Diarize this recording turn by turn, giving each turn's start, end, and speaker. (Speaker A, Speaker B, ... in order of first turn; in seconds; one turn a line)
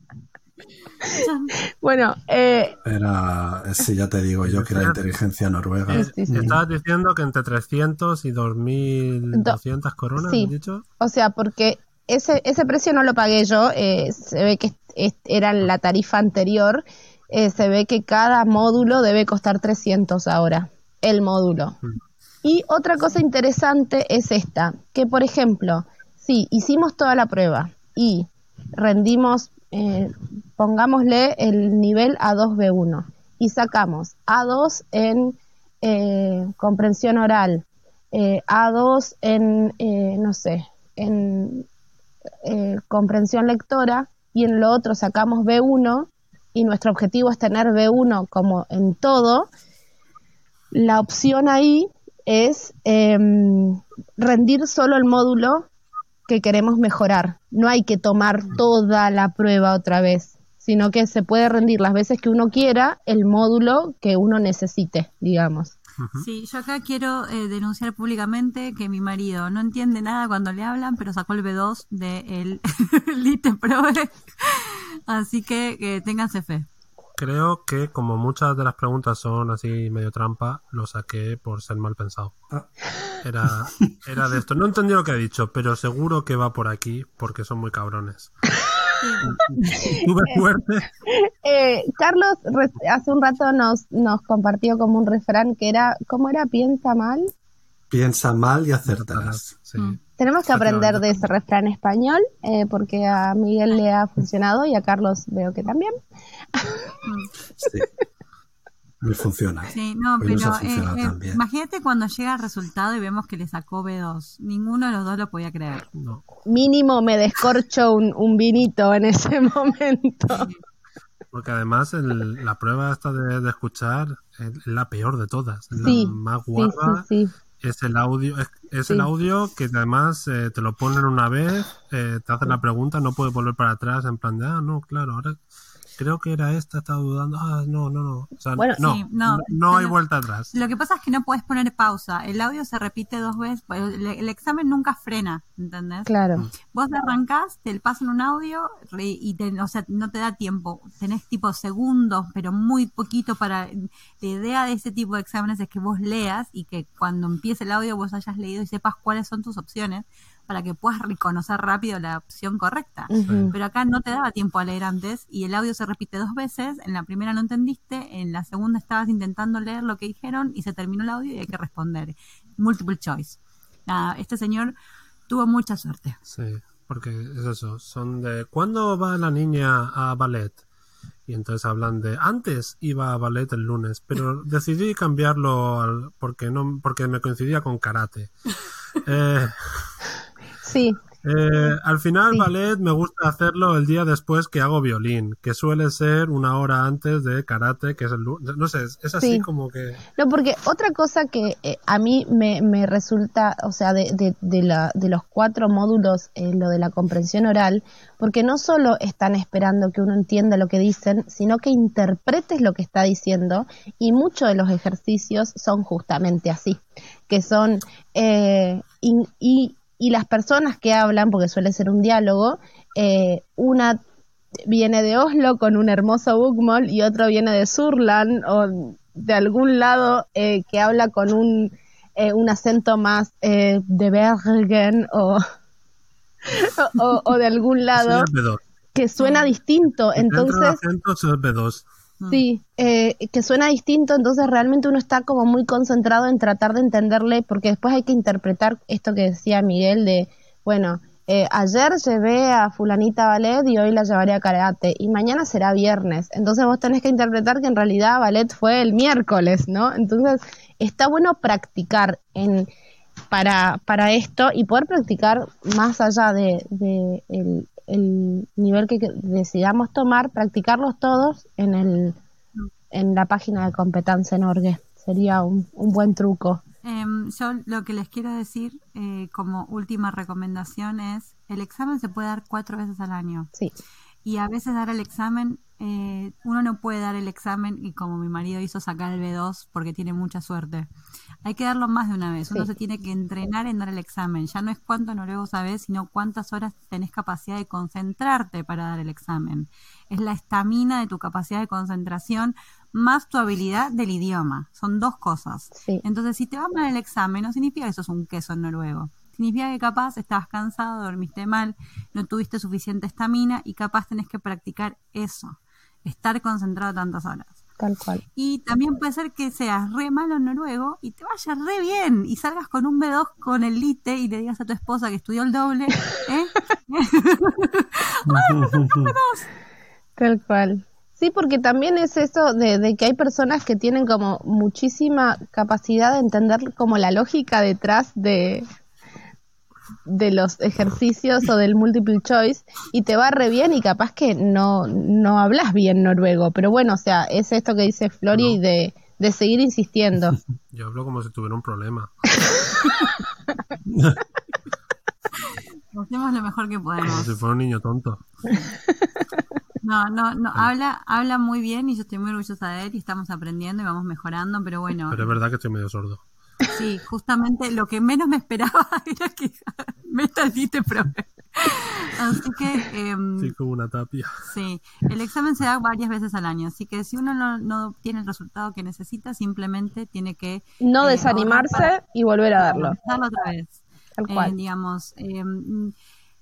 Speaker A: 1.1-1.5
Speaker B: 1.8-2.8
Speaker C: 2.9-6.6
Speaker D: 4.4-5.0
Speaker D: 5.9-10.8
Speaker B: 5.9-6.5
Speaker B: 10.2-21.8
Speaker B: 22.4-41.7
Speaker B: 42.4-49.5
Speaker B: 50.7-55.7
Speaker B: 56.3-65.8
Speaker D: 66.0-66.2
Speaker A: 66.1-76.7
Speaker D: 77.2-82.3
Speaker D: 83.2-88.3
Speaker A: 89.0-89.3
Speaker D: 89.3-90.9
Speaker B: 89.8-90.4
Speaker B: 91.1-97.3
Speaker C: 97.9-99.5
Speaker D: 98.9-100.0
Speaker B: 100.2-105.9
Speaker D: 100.5-101.3
Speaker B: 106.5-107.0
Speaker C: 107.5-107.9
Speaker C: 109.0-111.4
Speaker A: 109.7-115.9
Speaker D: 115.9-116.2
Speaker B: 116.5-120.5
Speaker A: 120.3-120.6
Speaker D: 121.3-127.0
Speaker B: 125.8-127.3
Speaker D: 127.6-135.4
Speaker D: 136.0-140.5
Speaker A: 138.8-140.0
Speaker A: 140.5-146.1
Speaker B: 146.1-146.5
Speaker A: 146.7-174.8
Speaker B: 163.1-163.6
Speaker D: 163.2-163.5
Speaker A: 175.3-176.2
Speaker D: 176.3-180.6
Speaker D: 181.3-190.0
Speaker B: 190.6-191.0
Speaker D: 191.2-200.0
Speaker B: 199.2-199.5
Speaker B: 200.2-224.0
Speaker B: 224.7-235.4
Speaker B: 236.4-238.3
Speaker D: 237.9-238.6
Speaker B: 238.9-240.8
Speaker A: 239.2-239.5
Speaker D: 240.1-241.9
Speaker B: 242.3-262.7
Speaker B: 263.3-272.2
Speaker B: 272.9-276.6
Speaker A: 276.8-283.5
Speaker A: 284.2-290.9
Speaker A: 291.4-317.6
Speaker B: 305.8-306.0
Speaker B: 317.8-318.2
Speaker A: 318.4-329.5
Speaker C: 328.3-329.1
Speaker B: 330.2-338.6
Speaker B: 340.1-350.4
Speaker D: 348.3-348.6
Speaker D: 350.7-352.3
Speaker C: 353.9-354.2
Speaker A: 355.5-357.3
Speaker D: 357.0-358.2
Speaker A: 359.8-365.3
Speaker D: 365.1-366.3
Speaker A: 366.7-373.5
Speaker D: 373.4-374.5
Speaker A: 374.4-381.9
Speaker B: 380.8-383.0
Speaker A: 382.6-385.9
Speaker B: 384.2-384.5